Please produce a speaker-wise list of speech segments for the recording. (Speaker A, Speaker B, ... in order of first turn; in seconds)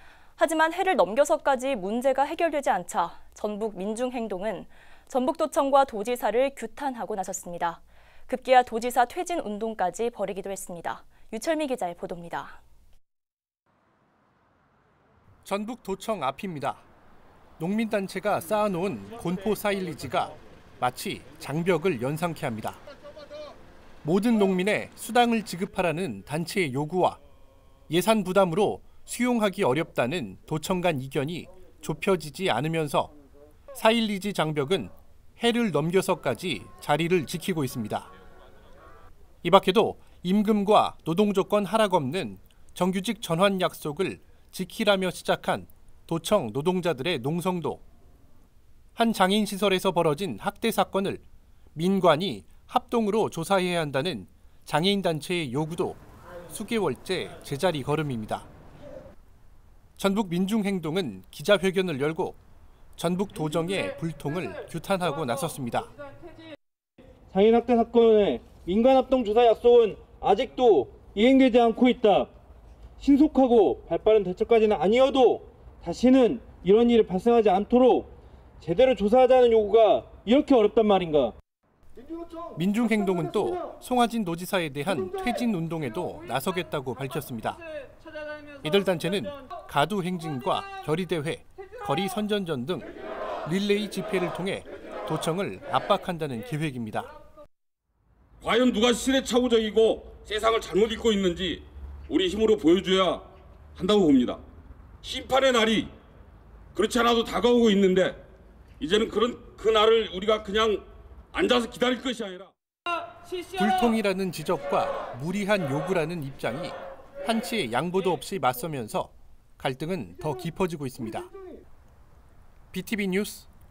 Speaker A: 0.4-12.6
Speaker B: 15.4-16.8, 17.6-22.8, 24.0-27.2, 27.9-33.1, 33.8-38.1, 39.4-47.8, 49.0-51.2, 51.8-58.5, 60.0-62.4, 63.0-65.9, 82.6-87.6, 88.6-92.9, 93.5-97.1, 113.5-121.3, 122.7-123.5
Speaker C: 67.3-72.3, 73.0-81.3
Speaker D: 98.4-103.2, 103.8-104.4, 105.0-105.9, 106.8-108.2, 108.8-112.5